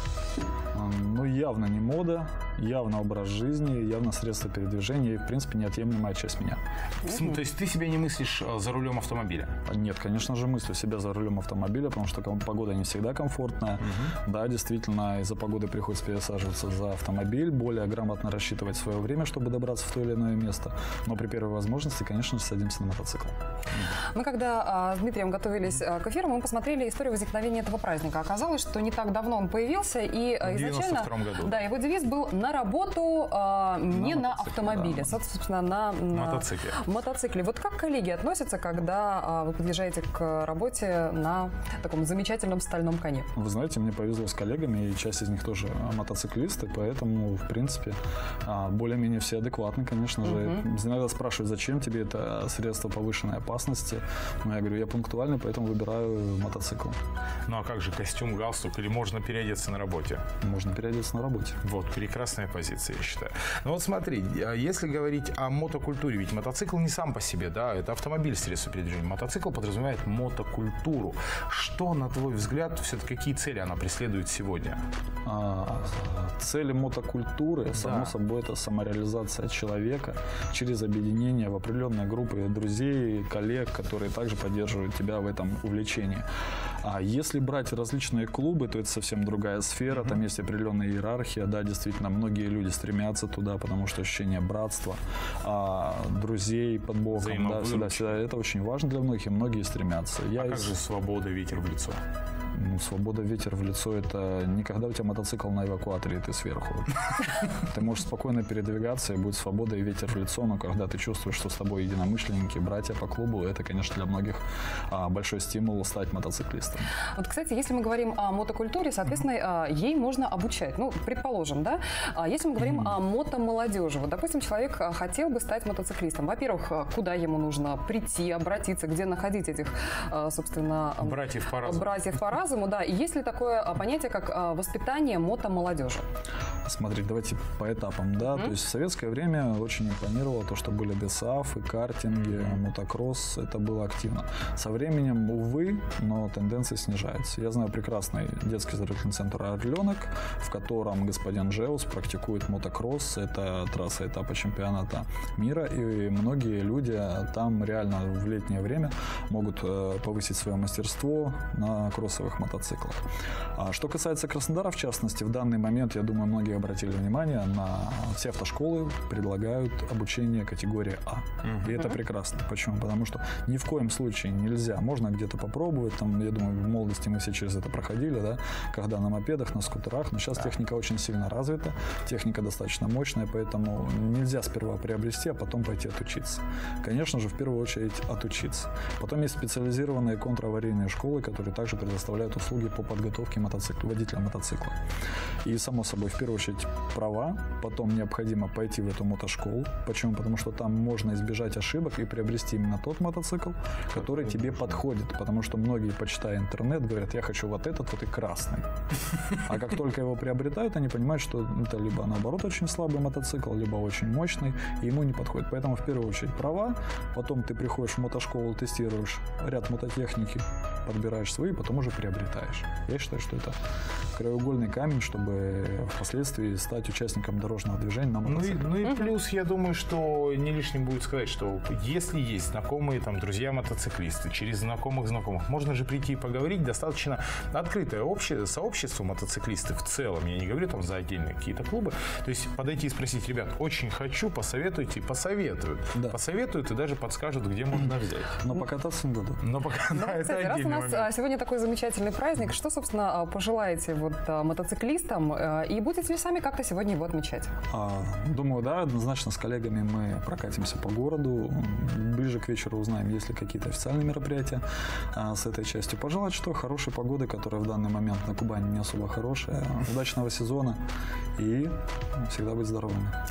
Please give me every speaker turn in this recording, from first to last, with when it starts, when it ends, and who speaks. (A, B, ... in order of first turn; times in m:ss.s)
0:00.7-0:06.6 A
0:07.0-0:09.6 B
0:09.6-0:23.3 A
0:13.8-0:14.1 B
0:24.1-0:43.3 C
0:30.4-0:31.6 B
0:33.9-0:35.1 A
0:36.1-0:36.8 B
0:43.3-0:57.0 A
0:50.2-0:50.6 C
0:57.5-1:00.2 B
1:00.4-1:01.6 A
1:01.6-1:14.8 B
1:15.2-1:26.2 A
1:17.7-1:18.1 B
1:26.8-1:40.8 A
1:37.1-1:38.2 B
1:40.4-1:42.0 B
1:42.5-1:56.9 A
1:57.1-2:16.0 C
2:11.0-2:12.0 B
2:16.6-3:14.8 A
2:18.3-2:18.5 C
3:15.4-3:28.6 A
3:23.9-3:24.6 B
3:29.4-3:43.6 A
3:44.2-3:48.8 A
3:48.2-4:08.4 B
4:08.4-4:09.4 A
4:09.4-4:11.1 B
4:09.9-4:17.5 C
4:17.7-4:30.8 A
4:31.4-4:33.1 A